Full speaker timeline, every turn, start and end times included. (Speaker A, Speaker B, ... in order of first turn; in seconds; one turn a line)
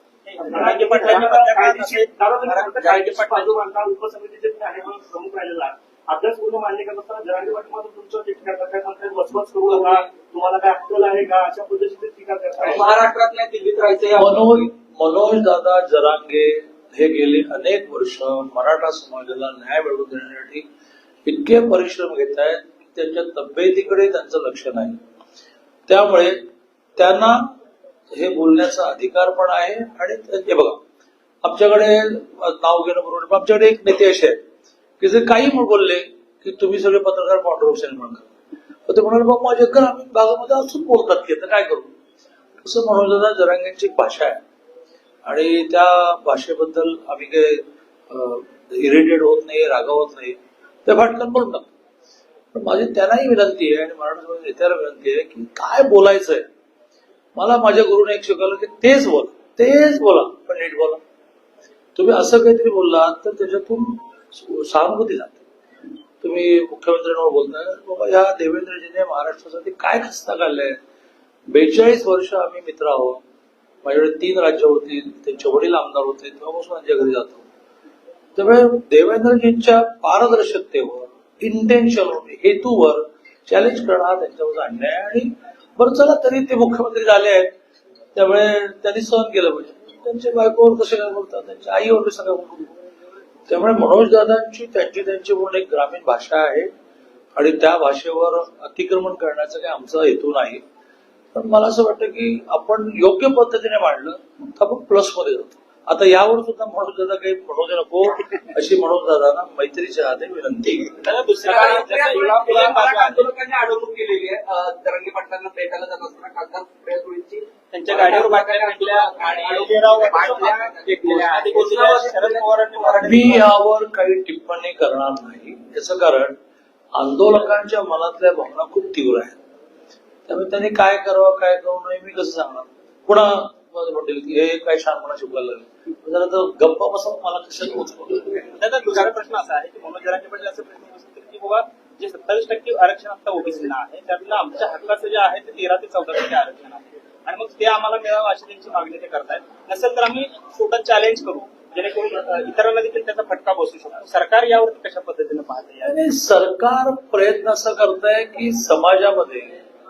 Speaker A: 0.3-3.3
Speaker B: 0.5-12.8
Speaker C: 2.8-3.5
Speaker C: 12.7-14.4
Speaker D: 14.2-20.6
Speaker D: 21.2-25.0
Speaker D: 25.9-26.4
Speaker D: 27.0-27.5
Speaker D: 28.1-30.8
Speaker D: 31.4-34.4
Speaker D: 35.0-38.3
Speaker D: 38.9-41.9
Speaker D: 42.6-44.4
Speaker D: 45.3-51.7
Speaker D: 52.5-56.5
Speaker D: 57.4-61.0
Speaker D: 62.0-65.4
Speaker D: 66.2-70.8
Speaker D: 71.5-73.2
Speaker D: 73.8-77.4
Speaker D: 78.4-87.5
Speaker D: 88.2-92.8
Speaker D: 93.5-96.7
Speaker D: 97.4-100.6
Speaker D: 101.3-111.0
Speaker A: 111.0-113.3
Speaker C: 111.4-123.3
Speaker A: 117.7-123.5
Speaker B: 119.6-120.6
Speaker D: 123.0-126.3
Speaker D: 127.0-129.4
Speaker D: 130.3-138.5
Speaker A: 138.6-156.0
Speaker D: 155.8-159.6